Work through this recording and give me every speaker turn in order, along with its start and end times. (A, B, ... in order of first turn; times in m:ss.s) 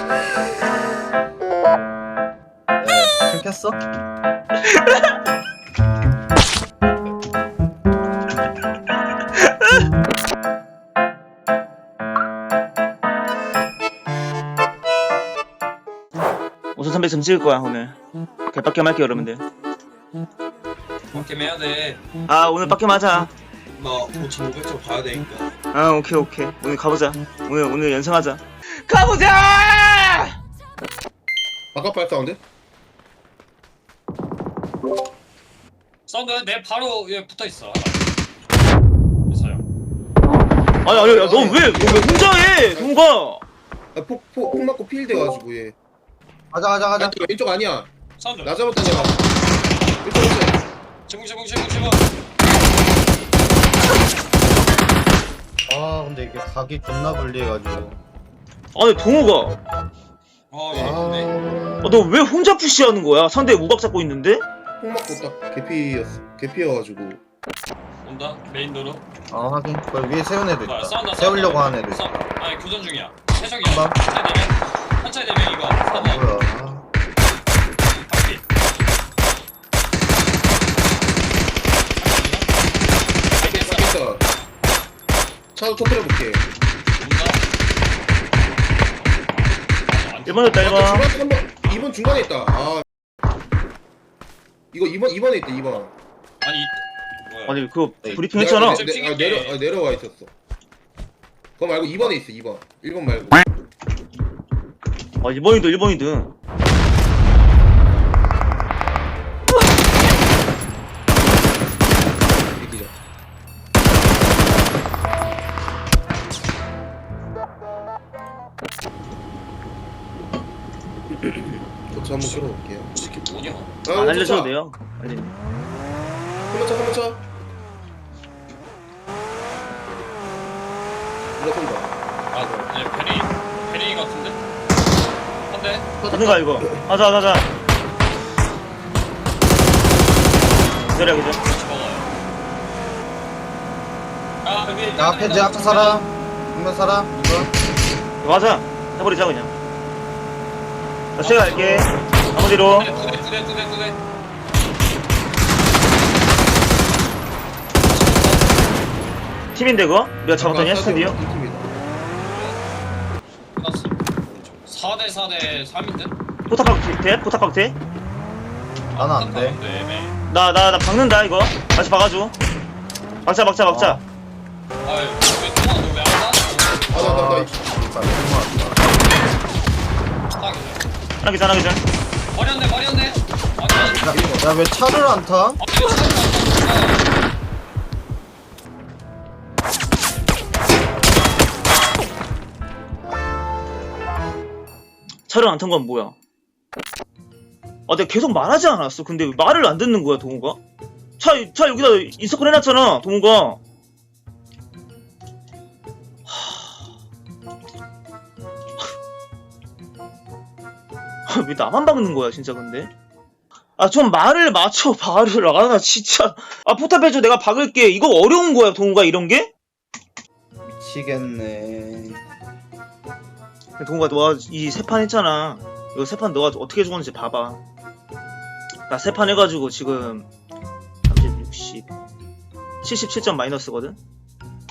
0:02.8-0:03.8 A
0:16.8-0:18.0 B
0:18.5-0:19.4 B
0:21.1-0:22.1 C
0:22.3-0:23.3 B
0:23.8-0:25.2 D
0:25.7-0:30.4 B
0:31.7-0:32.4 D
0:36.1-0:38.0 C
0:39.3-0:39.6 C
0:40.8-0:43.4 B
0:40.8-0:43.0 D
0:43.9-0:45.8 D
0:46.5-0:47.2 A
0:47.0-0:49.2 D
0:48.2-0:49.2 C
0:50.0-0:50.6 D
0:51.1-0:52.1 C
0:55.7-0:58.0 A
0:58.8-0:59.6 B
1:00.5-1:01.4 C
1:00.7-1:01.0 D
1:00.7-1:01.5 A
1:01.8-1:04.4 B
1:04.8-1:07.2 D
1:08.0-1:09.0 C
1:09.3-1:12.1 A
1:10.6-1:16.3 C
1:13.6-1:14.0 A
1:15.9-1:16.8 A
1:18.0-1:18.4 C
1:22.0-1:22.5 C
1:23.4-1:24.0 C
1:23.4-1:24.2 D
1:25.6-1:26.5 D
1:27.0-1:27.4 C
1:29.8-1:30.7 C
1:30.3-1:31.1 B
1:30.6-1:32.8 D
1:34.7-1:35.9 D
1:36.4-1:37.6 C
1:37.5-1:38.8 B
1:38.2-1:40.3 D
1:38.6-1:39.6 C
1:41.6-1:43.4 D
1:45.2-1:46.3 B
1:52.6-1:52.9 D
2:01.9-2:02.9 D
2:02.2-2:03.7 C
2:03.8-2:04.6 D
2:03.9-2:05.4 B
2:06.5-2:07.2 D
2:11.4-2:12.7 D
2:12.3-2:14.4 C
2:15.5-2:15.9 C
2:16.0-2:16.9 D
2:16.1-2:17.5 B
2:20.9-2:21.4 B
2:21.4-2:22.1 C
2:24.4-2:26.0 C
2:25.0-2:27.5 A
2:28.2-2:29.5 B
2:31.2-2:32.9 B
2:31.2-2:34.0 C
2:37.9-2:38.5 C
2:39.6-2:41.2 B
2:40.3-2:41.7 D
2:42.2-2:42.6 C
2:43.6-2:46.1 C
2:46.5-2:47.8 B
2:48.9-2:50.2 C
2:49.0-2:49.6 A
2:50.3-2:52.3 B
2:53.3-2:54.0 B
2:53.8-2:54.0 A
2:54.8-2:56.9 C
2:56.9-2:57.6 D
2:56.9-2:59.0 A
3:00.4-3:00.9 C
3:01.2-3:01.8 B
3:02.3-3:04.1 C
3:03.8-3:05.6 A
3:04.0-3:04.4 D
3:05.6-3:07.0 C
3:15.3-3:16.2 B
3:17.9-3:20.6 B
3:21.2-3:23.6 B
3:26.3-3:26.6 B
3:31.3-3:32.9 B
3:33.8-3:39.5 B
3:40.6-3:42.2 A
3:43.8-3:47.6 B
3:48.9-3:50.3 B
3:51.1-3:51.9 B
3:52.8-3:54.0 B